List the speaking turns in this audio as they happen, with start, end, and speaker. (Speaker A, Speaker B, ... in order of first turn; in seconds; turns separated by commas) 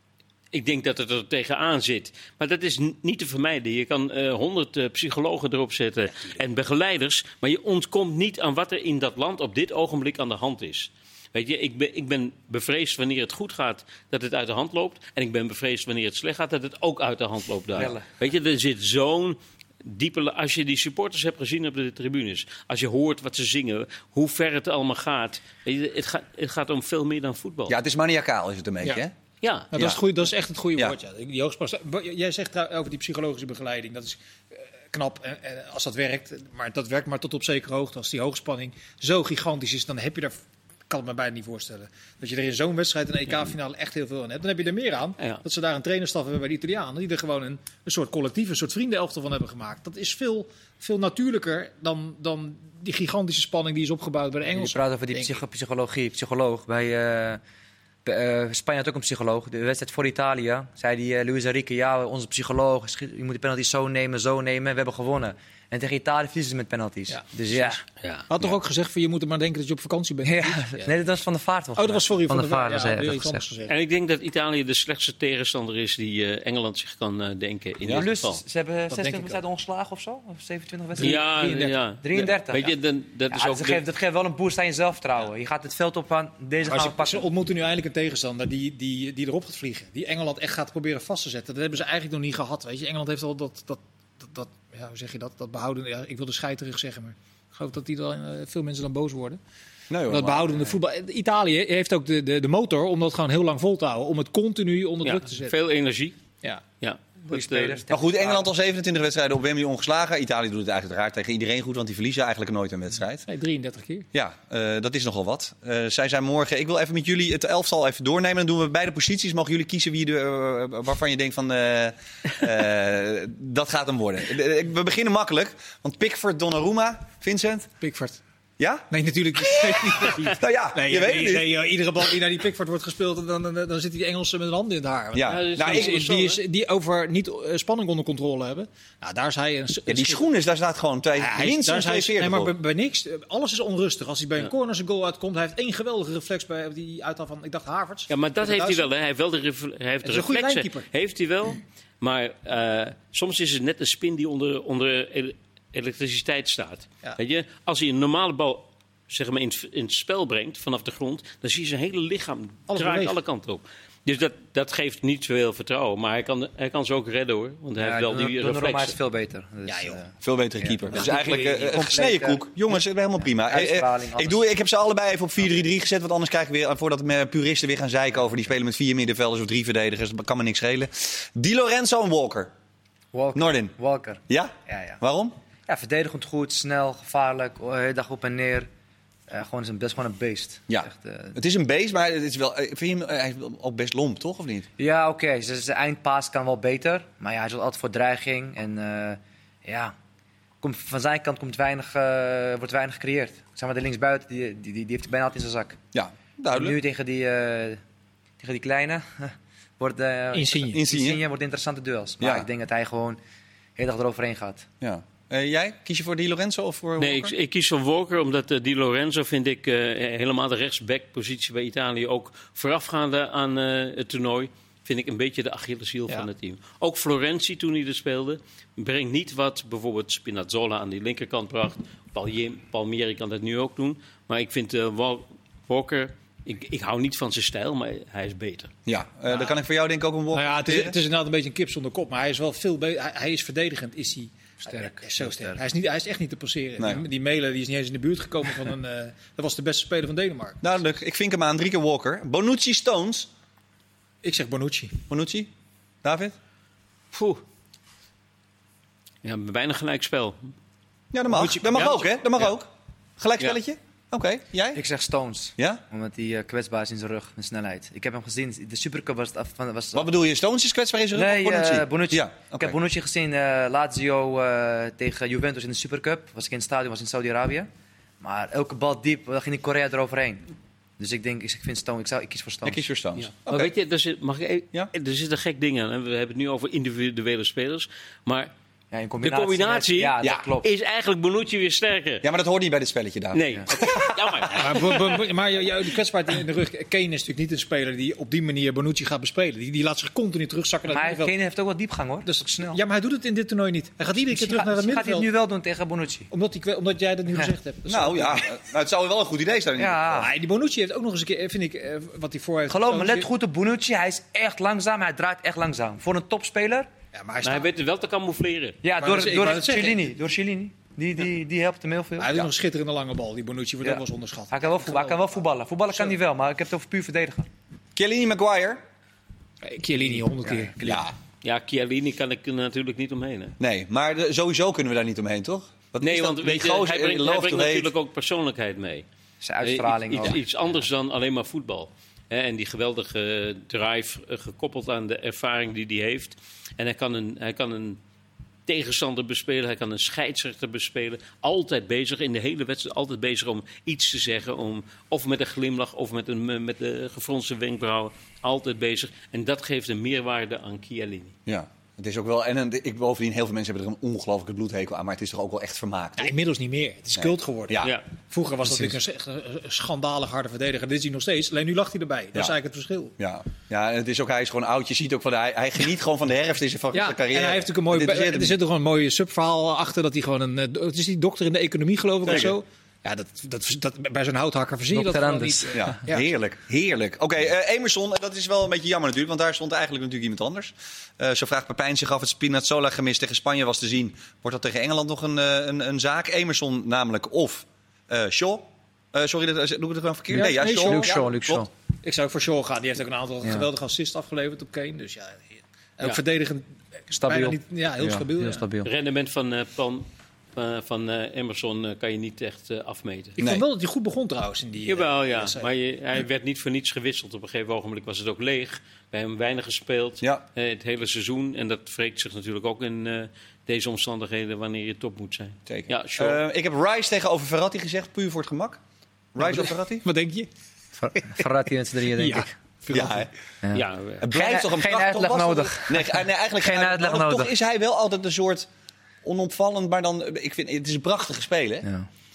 Speaker A: 0.5-27.8, Speaker B: 17.8-18.1, Speaker C: 27.7-29.1, Speaker A: 29.4-29.7, Speaker D: 29.7-40.4, Speaker C: 29.7-30.0, Speaker D: 40.9-55.4, Speaker B: 54.5-57.4, Speaker B: 58.0-67.8, Speaker A: 68.0-68.3, Speaker D: 68.3-70.9, Speaker B: 70.2-73.4, Speaker D: 71.8-73.8, Speaker A: 73.7-78.4, Speaker B: 77.9-82.7, Speaker D: 78.9-79.4, Speaker D: 81.0-81.8, Speaker A: 81.0-83.8, Speaker B: 83.3-87.3, Speaker D: 86.7-99.4, Speaker C: 99.9-100.7, Speaker D: 100.1-105.5, Speaker A: 105.0-106.2, Speaker A: 106.8-107.8, Speaker B: 107.3-108.5, Speaker C: 107.9-113.3, Speaker D: 113.3-114.1, Speaker C: 114.1-127.7, Speaker D: 127.8-128.2, Speaker C: 128.6-131.5, Speaker D: 128.9-140.2, Speaker C: 135.1-136.0, Speaker A: 135.3-136.4, Speaker C: 139.9-142.5, Speaker D: 141.2-148.9, Speaker A: 148.1-169.0, Speaker D: 150.0-150.9, Speaker D: 162.7-163.2, Speaker B: 167.8-172.5, Speaker D: 169.7-170.0, Speaker C: 170.2-182.5, Speaker D: 171.0-171.5, Speaker B: 173.4-174.4, Speaker B: 183.1-185.0, Speaker C: 183.3-183.8, Speaker C: 184.3-185.3, Speaker B: 185.7-188.7, Speaker B: 189.3-191.4, Speaker C: 190.7-194.7, Speaker B: 194.8-199.9, Speaker B: 200.6-205.8, Speaker C: 205.9-206.8, Speaker B: 206.5-207.8, Speaker B: 208.4-213.2, Speaker D: 210.3-210.8, Speaker C: 210.7-211.2, Speaker C: 212.2-212.5, Speaker B: 213.8-214.7, Speaker C: 214.8-217.3, Speaker A: 217.0-238.7, Speaker C: 238.9-241.0, Speaker D: 240.3-250.7, Speaker B: 244.6-245.6, Speaker C: 250.6-253.3, Speaker D: 254.2-255.0, Speaker C: 255.1-255.5, Speaker C: 256.0-256.4, Speaker A: 257.1-257.4, Speaker A: 259.2-260.5, Speaker C: 261.1-264.8, Speaker D: 261.3-262.1, Speaker A: 261.8-262.0, Speaker B: 264.7-270.1, Speaker C: 269.9-272.8, Speaker B: 271.1-277.7, Speaker B: 278.2-280.4, Speaker B: 281.0-282.8, Speaker C: 282.6-283.7, Speaker A: 283.2-288.5, Speaker B: 288.9-290.7, Speaker A: 289.2-292.3, Speaker C: 292.2-294.4, Speaker A: 293.3-295.0, Speaker D: 294.5-301.3, Speaker B: 300.9-302.8, Speaker D: 302.2-305.3, Speaker B: 304.3-306.3, Speaker D: 306.3-308.5, Speaker C: 307.9-310.2, Speaker B: 309.8-310.3, Speaker D: 310.2-313.3, Speaker B: 312.7-316.9, Speaker D: 317.1-317.7, Speaker A: 317.4-318.8, Speaker B: 318.8-322.3, Speaker D: 319.0-320.1, Speaker D: 322.2-325.4, Speaker B: 323.8-327.5, Speaker C: 327.9-328.8, Speaker D: 329.6-330.8, Speaker B: 330.4-331.0, Speaker C: 330.8-331.1, Speaker A: 331.4-333.6, Speaker C: 333.6-337.9, Speaker A: 336.0-339.1, Speaker B: 339.4-340.4, Speaker A: 339.6-348.0, Speaker A: 348.7-361.3, Speaker C: 361.5-366.3, Speaker D: 366.2-373.1, Speaker C: 367.2-367.9, Speaker C: 373.2-378.6, Speaker D: 376.9-386.3, Speaker C: 382.2-382.6, Speaker B: 384.9-386.0, Speaker C: 385.7-401.7, Speaker D: 400.3-401.1, Speaker B: 400.3-401.7, Speaker D: 402.0-408.7, Speaker B: 407.1-408.9, Speaker A: 408.8-413.4, Speaker D: 413.4-415.7, Speaker C: 413.4-413.6, Speaker A: 414.9-426.4, Speaker C: 425.7-428.8, Speaker C: 429.4-430.1, Speaker D: 429.4-430.5, Speaker B: 431.0-432.6, Speaker D: 432.1-433.3, Speaker C: 432.9-433.3, Speaker B: 433.6-437.5, Speaker A: 433.7-434.2, Speaker C: 434.2-438.7, Speaker C: 439.2-441.9